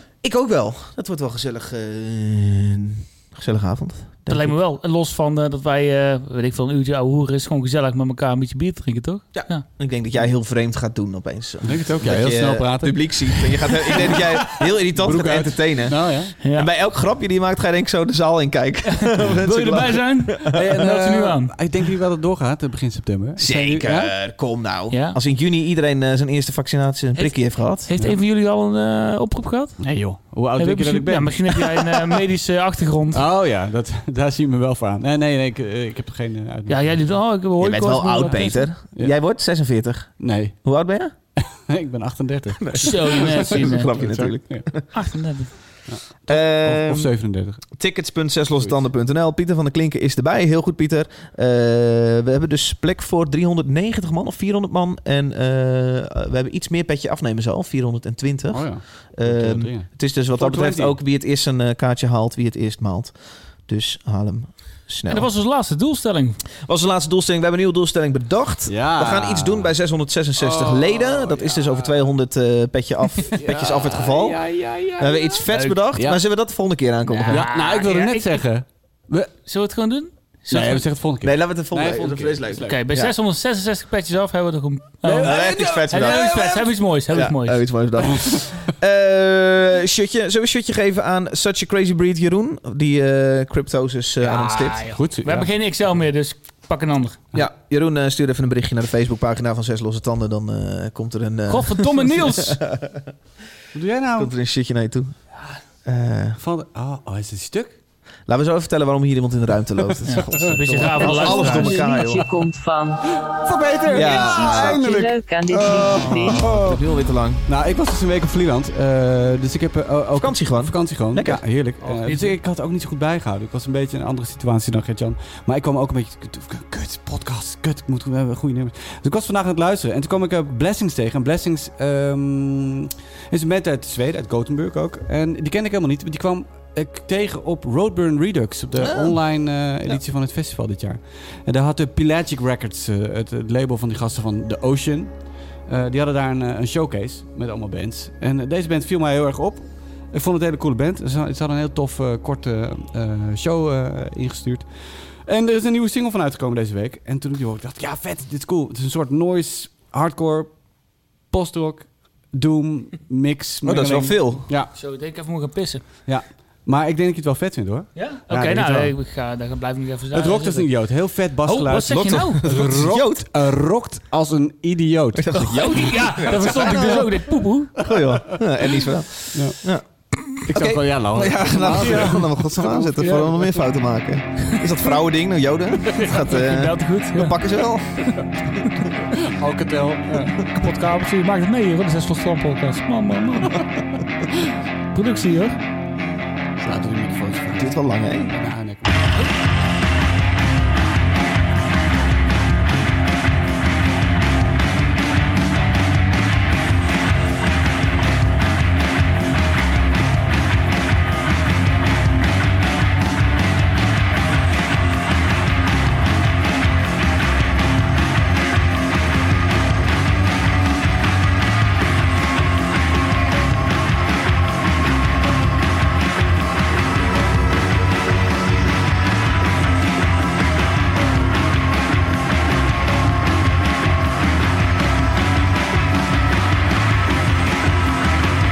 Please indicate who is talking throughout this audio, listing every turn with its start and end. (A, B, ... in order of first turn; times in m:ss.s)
0:00.2-0:04.6 A
0:04.3-0:09.6 B
0:09.3-0:20.7 A
0:11.6-0:16.3 C
0:16.4-0:16.7 B
0:19.2-0:21.5 B
0:20.5-0:24.2 C
0:23.4-0:27.9 A
0:24.9-0:25.2 B
0:27.2-0:33.2 B
0:29.8-0:32.1 C
0:33.1-0:37.1 C
0:36.7-0:38.7 B
0:37.6-0:41.1 A
0:38.2-0:39.2 C
0:40.2-0:40.8 C
0:41.4-0:44.9 C
0:42.6-0:44.8 A
0:42.8-0:43.9 B
0:44.5-0:45.6 B
0:45.9-0:47.8 C
0:46.3-0:47.2 A
0:47.7-1:05.3 A
0:48.6-0:48.9 C
0:58.5-1:01.0 C
1:05.1-1:06.4 B
1:06.6-1:17.5 A
1:08.7-1:09.7 C
1:10.4-1:12.1 C
1:13.3-1:16.2 C
1:17.1-1:18.5 B
1:17.3-1:19.3 C
1:19.4-1:20.9 B
1:20.5-1:22.8 C
1:21.2-1:23.2 A
1:22.7-1:25.3 B
1:25.0-1:26.7 C
1:25.2-1:26.5 A
1:25.9-1:27.6 B
1:27.1-1:34.9 A
1:34.2-1:37.2 B
1:35.0-1:35.5 C
1:37.3-1:43.0 A
1:41.5-1:42.6 B
1:43.7-1:44.3 C
1:44.2-1:45.3 A
1:45.8-1:46.4 A
1:46.4-1:47.8 C
1:48.3-1:52.2 A
1:50.1-1:51.9 B
1:50.2-1:51.8 C
1:51.0-1:53.1 D
1:53.3-1:56.8 C
1:53.9-1:54.8 A
1:54.0-1:56.4 D
1:56.0-1:57.4 A
1:57.5-2:40.6 C
2:00.2-2:01.5 A
2:02.0-2:02.4 B
2:18.8-2:19.2 A
2:41.3-2:44.7 C
2:43.6-2:44.5 A
2:44.7-2:45.8 B
2:46.1-2:48.9 C
2:48.0-2:50.8 B
2:50.1-2:56.4 C
2:51.4-2:52.4 B
2:51.9-2:53.3 A
2:55.2-2:57.2 A
2:55.5-2:57.7 B
2:57.8-3:08.2 A
2:59.3-2:59.6 C
3:00.4-3:03.6 C
3:01.8-3:02.2 B
3:05.8-3:07.4 B
3:09.3-3:10.3 C
3:10.4-3:13.6 B
3:14.9-3:15.6 B
3:16.6-3:19.2 C
3:17.6-3:18.3 A